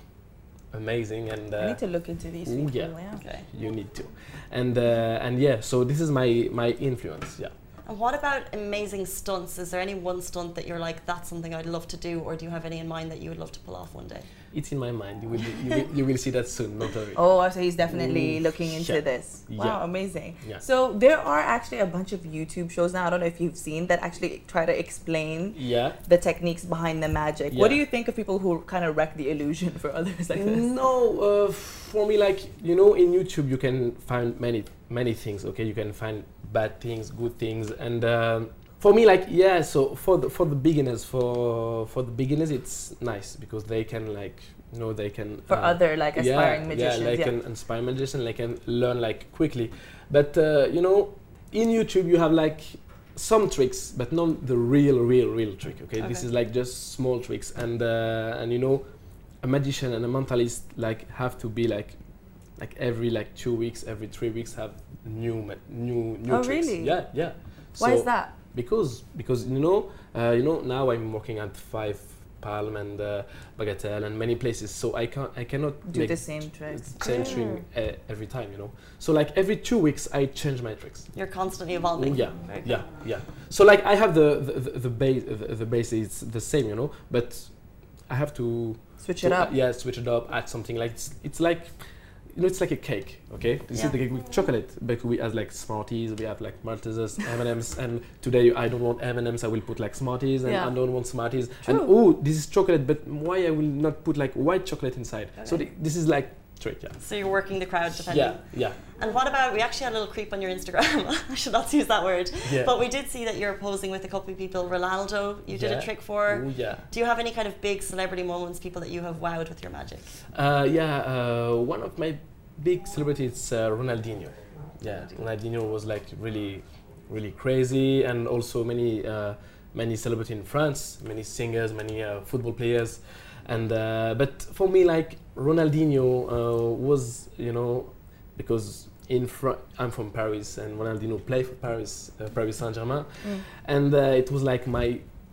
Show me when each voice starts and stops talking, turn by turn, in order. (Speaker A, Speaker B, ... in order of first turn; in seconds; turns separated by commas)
Speaker A: 0.7-1.8, Speaker B: 1.6-3.2, Speaker A: 2.4-7.5, Speaker C: 3.2-3.5, Speaker C: 7.9-14.3, Speaker A: 14.5-17.3, Speaker B: 17.1-30.7, Speaker A: 17.8-19.8, Speaker A: 25.6-26.0, Speaker A: 27.5-27.8, Speaker A: 30.3-58.9, Speaker B: 45.5-47.3, Speaker C: 56.0-56.3, Speaker A: 59.4-62.0, Speaker A: 62.6-81.1, Speaker B: 66.3-67.0, Speaker B: 67.8-68.3, Speaker B: 75.9-77.4, Speaker C: 77.0-77.6, Speaker C: 81.1-82.8, Speaker A: 82.0-87.5, Speaker A: 88.1-91.7, Speaker B: 89.0-89.5, Speaker A: 92.3-107.0, Speaker B: 100.5-100.7, Speaker B: 101.7-101.9, Speaker C: 105.4-105.6, Speaker C: 107.0-120.1, Speaker A: 108.0-108.8, Speaker A: 112.4-112.8, Speaker A: 115.5-116.8, Speaker A: 120.3-145.1